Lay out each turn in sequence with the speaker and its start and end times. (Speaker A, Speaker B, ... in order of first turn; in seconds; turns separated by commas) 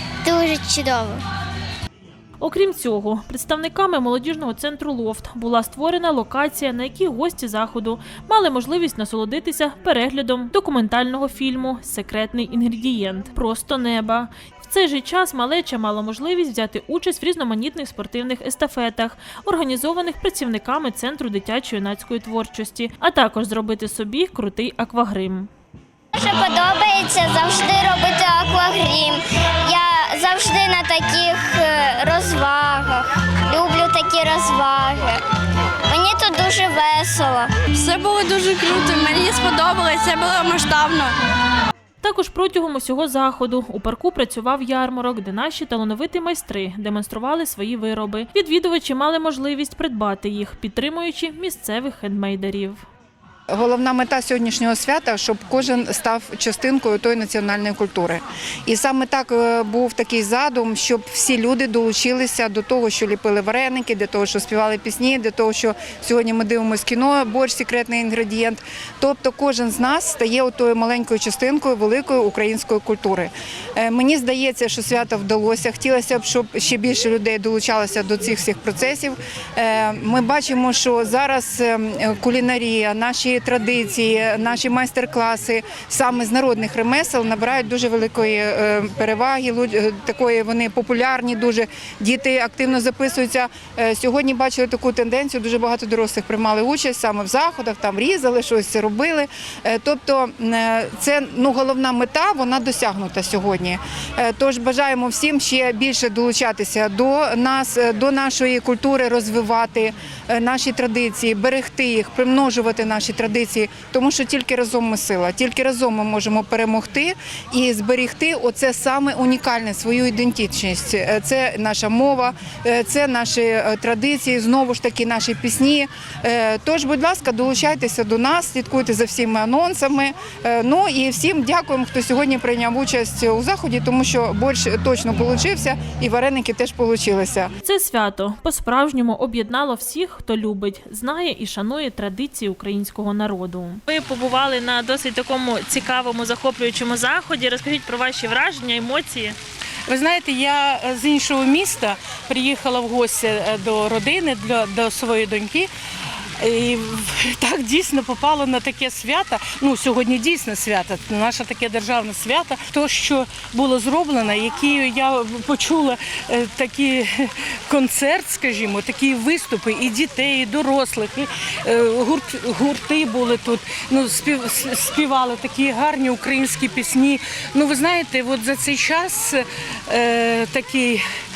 Speaker A: 0.2-1.2, Speaker B: 2.4-25.5, Speaker A: 26.1-35.2, Speaker A: 35.9-37.5, Speaker C: 37.8-41.1, Speaker B: 42.0-52.8, Speaker D: 53.5-137.5, Speaker B: 137.6-149.4, Speaker E: 149.9-155.7, Speaker E: 156.4-181.0